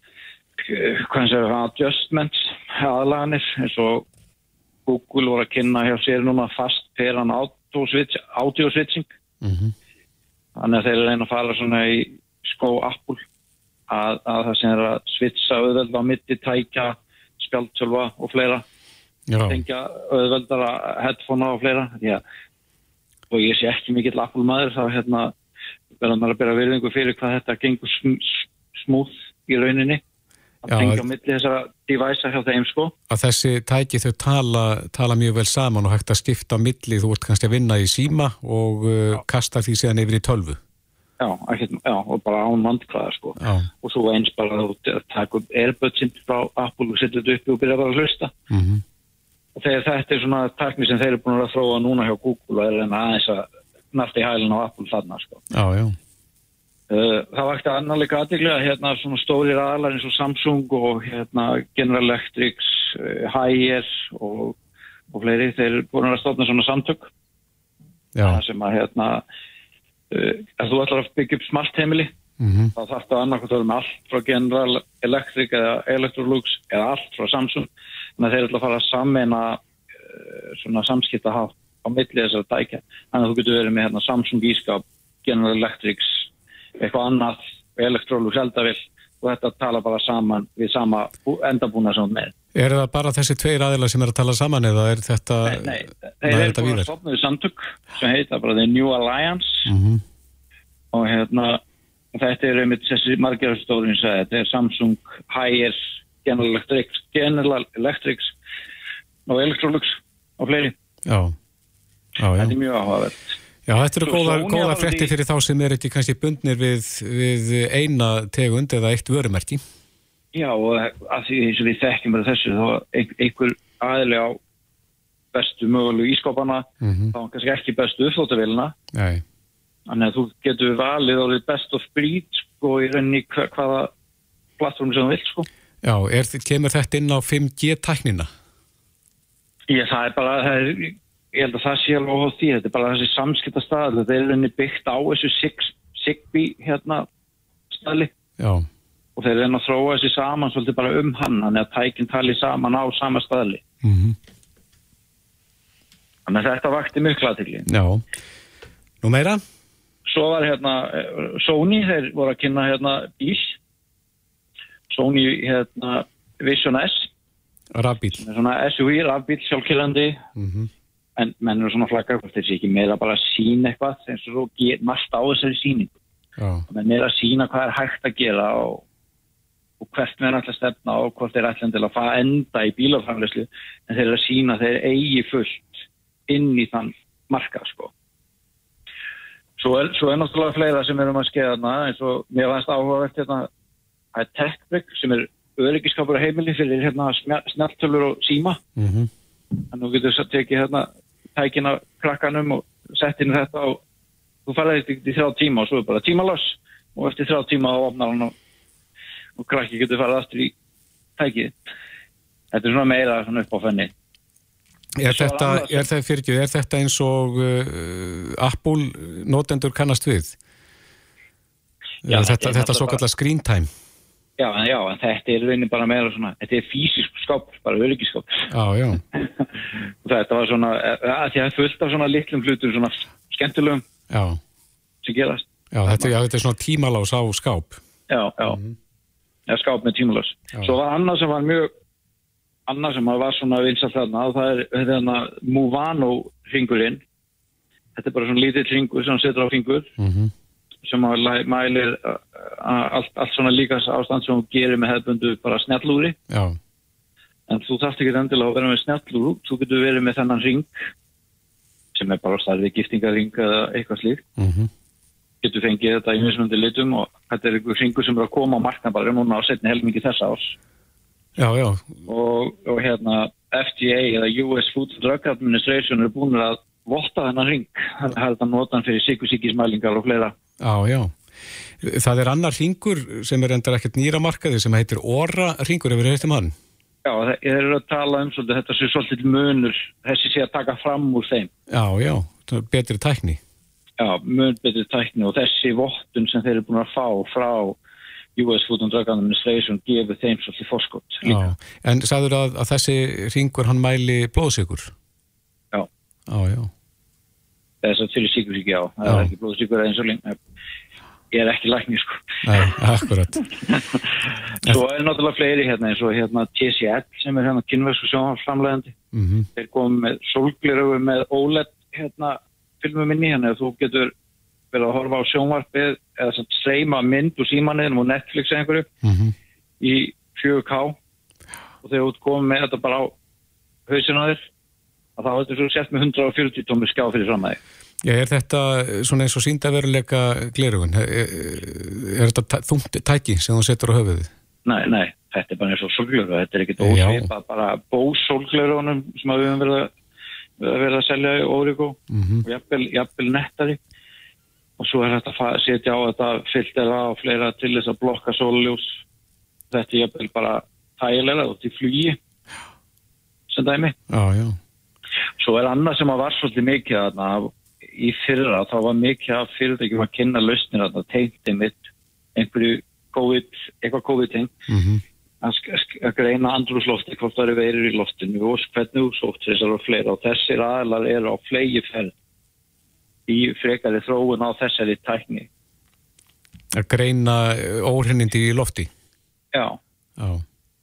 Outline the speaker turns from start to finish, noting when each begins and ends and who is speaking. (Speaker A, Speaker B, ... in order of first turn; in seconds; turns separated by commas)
Speaker A: 0.6-4.0, Speaker A: 4.8-9.1, Speaker B: 9.4-9.7, Speaker A: 10.6-13.2, Speaker A: 13.9-18.6, Speaker B: 19.3-19.6, Speaker A: 19.5-22.2, Speaker A: 23.3-25.3, Speaker A: 26.0-30.0, Speaker A: 30.6-32.9, Speaker B: 30.7-31.0, Speaker B: 33.1-40.6, Speaker A: 41.2-48.3, Speaker B: 43.4-43.7, Speaker B: 48.5-48.8, Speaker A: 49.5-55.4, Speaker B: 55.5-56.0, Speaker A: 56.9-64.5, Speaker A: 65.1-67.1, Speaker B: 68.2-68.4, Speaker A: 68.2-69.2, Speaker A: 70.1-72.1, Speaker B: 72.4-72.7, Speaker A: 72.7-77.7, Speaker A: 78.2-86.3, Speaker A: 86.8-92.3, Speaker B: 92.5-96.9, Speaker A: 95.4-99.7, Speaker B: 99.7-100.0, Speaker A: 100.9-101.6, Speaker A: 102.1-108.3, Speaker A: 109.2-110.7, Speaker B: 111.0-111.3, Speaker B: 112.2-112.5, Speaker A: 112.3-113.2, Speaker B: 113.7-119.6, Speaker A: 114.0-115.1, Speaker A: 120.3-124.4, Speaker A: 125.3-128.7, Speaker B: 126.8-127.1, Speaker B: 128.9-129.2, Speaker A: 129.9-133.9, Speaker A: 134.6-135.4, Speaker B: 135.8-138.3, Speaker A: 139.7-147.1, Speaker A: 147.7-148.1, Speaker B: 148.4-148.7, Speaker A: 149.2-153.6, Speaker B: 153.8-154.2, Speaker A: 156.3-157.7, Speaker B: 157.7-158.0, Speaker B: 159.0-159.4, Speaker A: 160.1-163.6, Speaker A: 164.9-167.1, Speaker B: 167.7-168.2, Speaker A: 168.2-170.2, Speaker B: 170.4-170.7, Speaker A: 171.2-175.9, Speaker B: 176.4-176.7, Speaker A: 176.7-178.8, Speaker A: 179.8-187.9, Speaker A: 189.6-193.5, Speaker A: 194.1-198.6, Speaker B: 198.8-199.1, Speaker A: 199.7-203.8, Speaker A: 204.4-208.3, Speaker A: 209.4-210.5, Speaker A: 211.2-211.6, Speaker A: 212.5-213.9, Speaker B: 215.0-220.3, Speaker A: 215.1-215.8, Speaker B: 222.1-223.7, Speaker A: 222.1-223.0, Speaker A: 224.4-228.4, Speaker B: 228.5-229.0, Speaker A: 230.0-233.8, Speaker B: 234.1-234.4, Speaker A: 235.0-236.1, Speaker B: 235.7-237.8, Speaker A: 238.1-238.6, Speaker B: 238.4-238.7, Speaker A: 239.5-241.7, Speaker A: 242.7-247.0, Speaker A: 247.9-249.9, Speaker B: 250.0-250.3, Speaker A: 250.8-256.2, Speaker B: 256.3-256.6, Speaker A: 257.5-260.7, Speaker A: 261.9-264.2, Speaker B: 264.4-264.7, Speaker A: 265.4-270.5, Speaker B: 271.4-272.0, Speaker A: 272.1-280.3, Speaker B: 280.6-281.1, Speaker B: 281.8-286.5, Speaker A: 287.0-291.5, Speaker B: 291.7-293.4, Speaker A: 294.0-297.8, Speaker A: 298.4-301.4, Speaker B: 301.2-304.9, Speaker B: 306.3-306.7, Speaker A: 307.8-310.4, Speaker B: 309.1-309.3, Speaker A: 311.3-312.4, Speaker B: 312.4-313.5, Speaker A: 313.6-314.0, Speaker A: 314.6-318.9, Speaker B: 319.1-319.5, Speaker A: 319.5-324.1, Speaker A: 324.7-328.9, Speaker B: 329.0-329.3, Speaker A: 329.8-331.0, Speaker A: 331.8-333.1, Speaker A: 333.9-334.4, Speaker A: 335.2-337.6, Speaker B: 338.0-344.3, Speaker A: 344.6-349.9, Speaker B: 346.8-347.3, Speaker A: 350.6-353.8, Speaker B: 352.1-352.4, Speaker A: 354.8-359.0, Speaker A: 359.7-362.2, Speaker A: 363.5-363.9, Speaker B: 364.1-364.6, Speaker A: 365.4-371.8, Speaker A: 372.4-374.5, Speaker B: 374.7-375.0, Speaker A: 375.4-382.1, Speaker A: 383.3-385.5, Speaker B: 386.7-388.9, Speaker A: 389.5-389.8, Speaker B: 390.2-390.4